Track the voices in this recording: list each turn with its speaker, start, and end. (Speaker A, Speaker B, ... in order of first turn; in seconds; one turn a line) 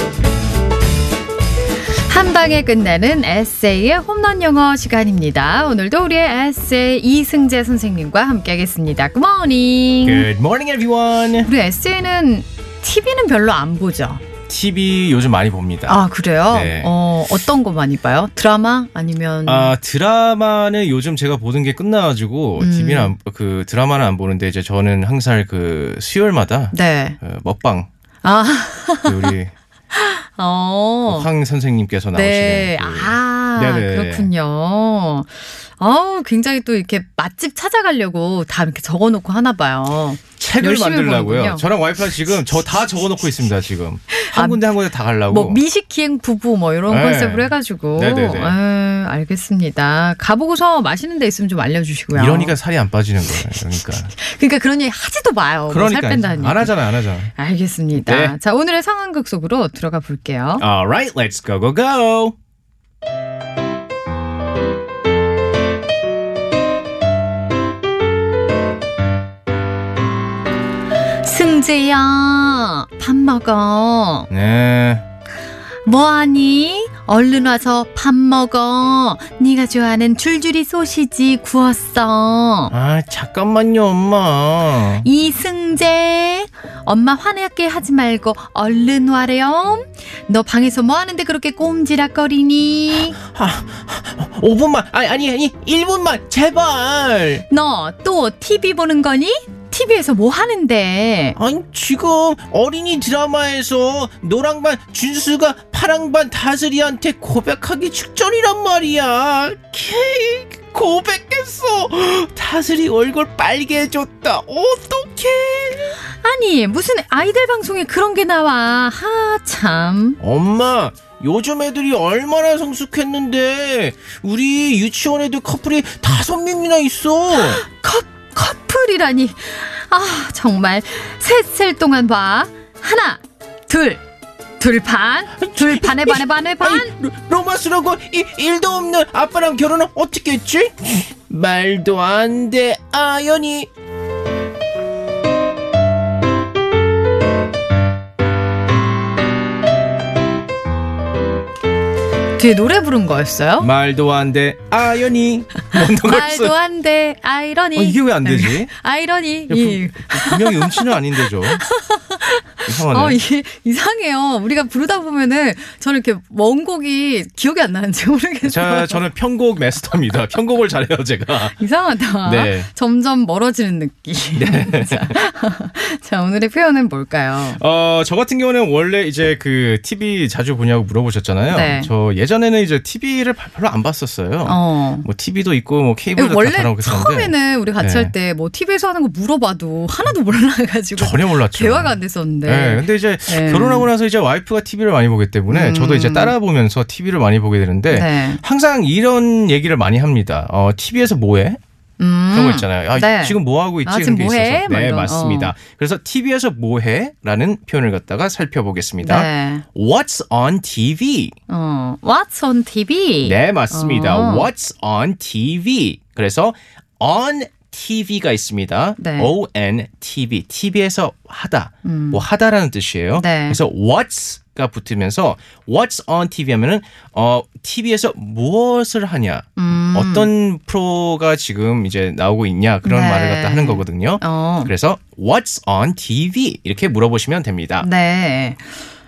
Speaker A: 2.0-10.3
Speaker B: 10.0-11.5
Speaker A: 11.4-14.2
Speaker B: 14.5-16.9
Speaker A: 15.9-19.7
Speaker B: 19.5-27.9
Speaker A: 22.6-23.1
Speaker A: 26.7-27.2
Speaker A: 28.2-29.3
Speaker B: 29.1-29.5
Speaker A: 29.9-31.3
Speaker B: 31.1-34.3
Speaker A: 32.1-41.7
Speaker B: 40.4-45.6
Speaker A: 44.1-44.6
Speaker A: 45.3-52.5
Speaker B: 46.9-48.6
Speaker B: 52.1-54.1
Speaker A: 54.1-56.8
Speaker B: 55.7-57.3
Speaker A: 57.4-60.6
Speaker B: 58.0-58.4
Speaker B: 60.6-62.4
Speaker A: 71.2-74.3
Speaker B: 74.3-75.0
Speaker A: 75.8-82.7
Speaker B: 82.7-85.1
Speaker A: 85.0-93.2
Speaker B: 93.1-97.4
Speaker A: 97.5-101.4
Speaker B: 101.4-116.0
Speaker A: 116.1-120.2
Speaker B: 120.2-127.6
Speaker A: 127.3-134.0
Speaker A: 134.6-136.9
Speaker B: 135.4-143.7
Speaker A: 152.4-153.7
Speaker B: 153.6-156.6
Speaker A: 155.9-169.1
Speaker B: 157.8-158.7
Speaker B: 159.5-161.6
Speaker B: 162.7-163.2
Speaker B: 168.4-171.6
Speaker A: 171.6-177.6
Speaker B: 172.2-172.7
Speaker B: 174.3-175.2
Speaker B: 177.5-188.1
Speaker A: 181.5-181.9
Speaker A: 184.4-185.1
Speaker A: 186.2-193.9
Speaker B: 191.0-201.6
Speaker A: 195.5-196.3
Speaker A: 197.9-198.4
Speaker A: 202.0-205.5
Speaker B: 202.3-211.4
Speaker A: 209.0-209.7
Speaker A: 211.5-214.5
Speaker B: 213.2-237.9
Speaker A: 219.0-219.3
Speaker A: 221.8-222.2
Speaker A: 223.2-223.6
Speaker A: 229.6-230.3
Speaker A: 232.8-234.7
Speaker A: 237.8-238.7